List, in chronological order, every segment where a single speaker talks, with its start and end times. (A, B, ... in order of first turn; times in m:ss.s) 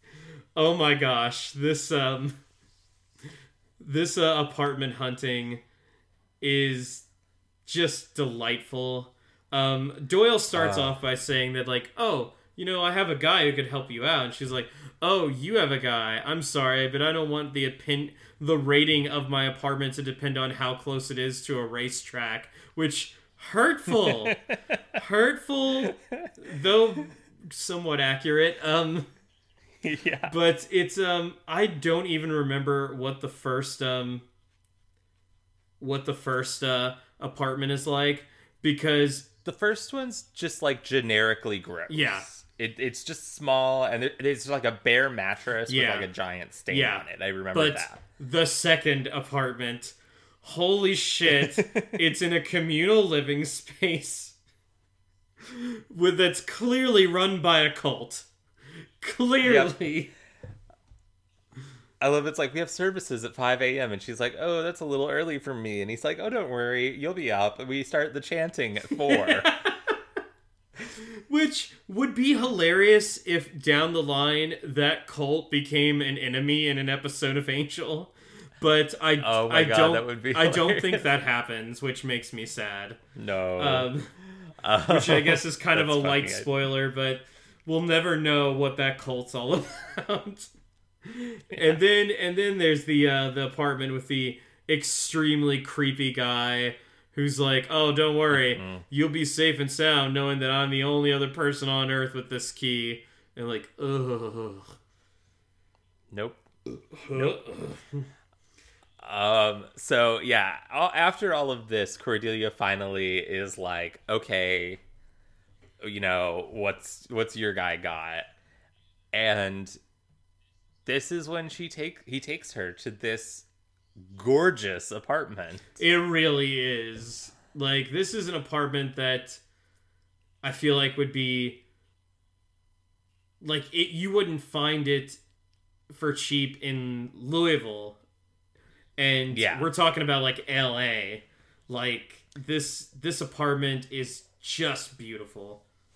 0:00.6-0:02.4 A
0:03.8-0:05.6 A
0:06.4-0:07.1 A
0:07.7-0:24.4 A
0:10.5-0:11.0 B
0:23.9-0:24.8 B
0:24.9-0:29.1 A
0:29.8-0:30.3 B
0:30.3-0:34.2 A
0:35.8-0:39.3 A
0:39.4-0:48.0 B
0:41.9-0:42.3 A
0:45.7-0:46.1 A
0:46.7-0:54.4 A
0:51.3-0:52.0 B
0:55.4-0:58.3 A
0:59.0-1:00.1 A
0:59.4-0:59.8 B
1:02.0-1:09.5 B
1:09.1-1:09.9 A
1:11.0-1:23.0 A
1:19.2-1:21.1 B
1:23.2-1:23.9 B
1:23.6-1:24.1 A
1:24.4-1:26.5 B
1:24.8-1:30.5 A
1:31.0-1:44.8 A
1:38.3-1:38.8 B
1:46.1-1:46.5 B
1:46.9-1:48.1 A
1:47.1-1:47.4 B
1:49.0-1:54.8 B
1:55.8-1:58.3 B
1:59.1-1:59.8 B
2:00.9-2:05.8 B
2:05.8-2:09.4 A
2:10.4-2:11.6 A
2:13.4-2:15.2 A
2:15.9-2:18.0 A
2:19.0-2:25.6 A
2:19.3-2:19.7 B